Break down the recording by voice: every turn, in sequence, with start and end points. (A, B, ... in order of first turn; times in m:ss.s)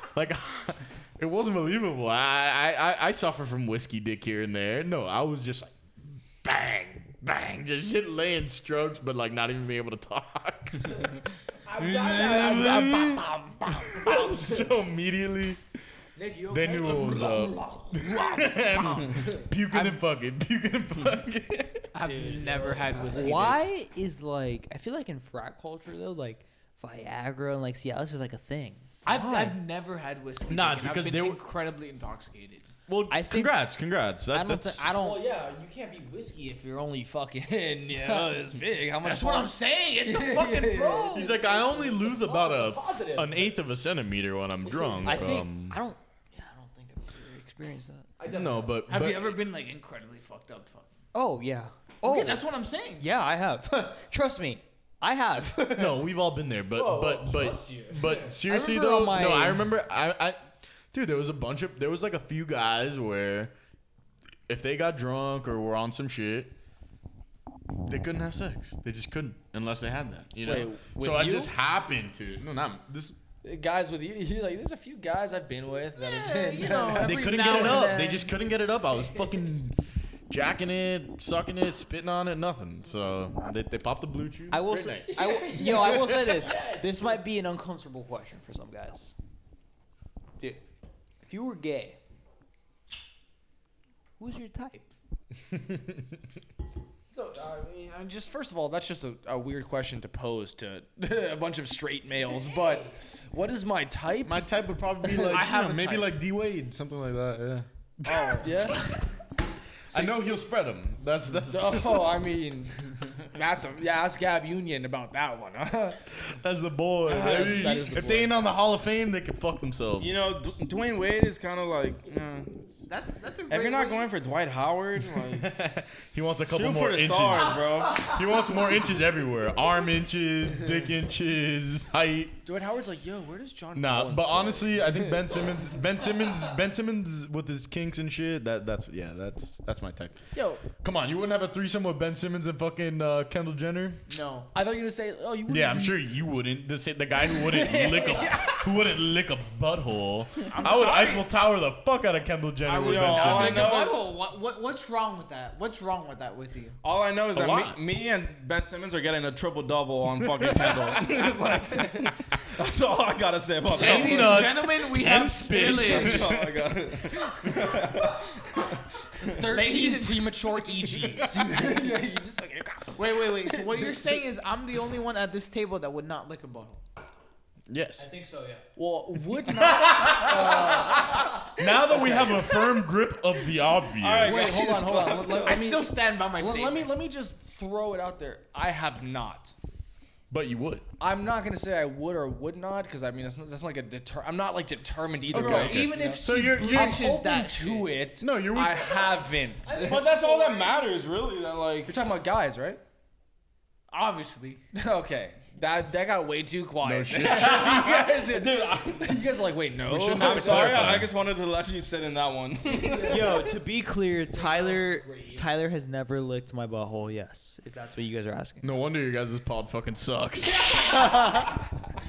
0:00.2-0:05.8 A
0:06.4-0:11.1 A
0:11.7-0:14.6 B
0:11.8-0:12.8 C
0:12.0-0:15.6 A
0:16.2-0:19.5 B
0:16.5-0:21.9 A
0:19.7-0:20.0 D
0:21.9-0:23.6 D
0:22.0-0:23.6 B
0:23.1-0:28.9 E
0:29.1-0:32.7 D
0:29.1-0:29.6 A
0:30.5-0:31.4 A
0:32.9-0:35.0 A
0:33.1-0:33.6 E
0:34.3-0:35.1 E
0:34.9-0:43.6 B
0:39.0-0:41.3 D
0:41.1-0:45.8 A
0:44.6-0:45.3 B
0:45.0-0:48.1 E
0:48.2-0:48.8 B
0:48.3-0:49.4 A
0:48.9-0:50.9 D
0:51.1-0:52.4 E
0:52.0-0:53.1 D
0:53.0-0:56.0 E
0:55.7-1:03.5 A
0:56.7-0:58.4 B
0:58.4-0:59.7 E
1:04.5-1:06.5 A
1:07.9-1:13.2 A
1:10.4-1:11.5 B
1:13.4-1:17.9 B
1:16.0-1:18.3 D
1:17.0-1:19.8 A
1:20.3-1:25.2 A
1:24.5-1:29.2 E
1:25.1-1:27.2 B
1:25.7-1:26.0 A
1:31.2-1:32.0 E
1:34.2-1:34.9 E
1:35.5-1:36.1 A
1:37.1-1:45.5 B
1:44.2-1:49.0 A
1:45.3-1:46.1 D
1:48.1-1:49.0 B
1:49.9-1:52.1 A
1:51.4-1:56.0 B
1:56.3-2:00.3 A
1:57.1-1:58.4 B
1:57.1-1:57.9 C
2:00.0-2:02.7 C
2:02.9-2:04.1 D
2:03.5-2:05.5 C
2:05.2-2:12.3 A
2:06.5-2:08.0 C
2:12.4-2:15.4 B
2:13.8-2:20.2 A
2:20.3-2:20.7 B
2:20.7-2:24.0 A
2:24.1-2:24.5 D
2:24.5-2:26.0 B
2:25.5-2:33.8 A
2:27.3-2:28.6 B
2:30.5-2:31.3 D
2:32.7-2:34.0 B
2:32.7-2:34.0 C
2:33.1-2:36.8 D
2:36.8-2:44.4 C
2:37.4-2:37.8 A
2:40.9-2:42.1 B
2:43.7-2:46.6 A
2:43.7-2:46.3 D
2:45.7-2:46.0 B
2:45.8-2:48.3 C
2:49.2-2:54.2 B
2:49.3-2:50.5 D
2:49.4-2:51.2 E
2:53.0-2:56.8 D
2:57.7-2:58.1 A
2:58.0-2:58.6 E
2:58.8-3:02.6 B
2:59.6-3:04.5 A
3:04.0-3:05.6 C
3:04.2-3:09.5 B
3:04.4-3:04.8 D
3:05.3-3:06.9 D
3:10.3-3:10.9 A
3:11.0-3:20.8 B
3:15.3-3:17.1 A
3:15.3-3:17.9 D
3:18.2-3:19.3 A
3:19.8-3:22.0 C
3:21.8-3:22.8 B
3:23.9-3:24.6 D
3:24.7-3:31.0 B
3:26.8-3:28.1 A
3:27.2-3:29.2 C
3:29.8-3:31.1 A
3:30.2-3:33.5 C
3:32.7-3:33.6 B
3:33.0-3:38.7 E
3:34.3-3:35.5 B
3:38.6-3:41.4 A
3:40.4-3:41.6 B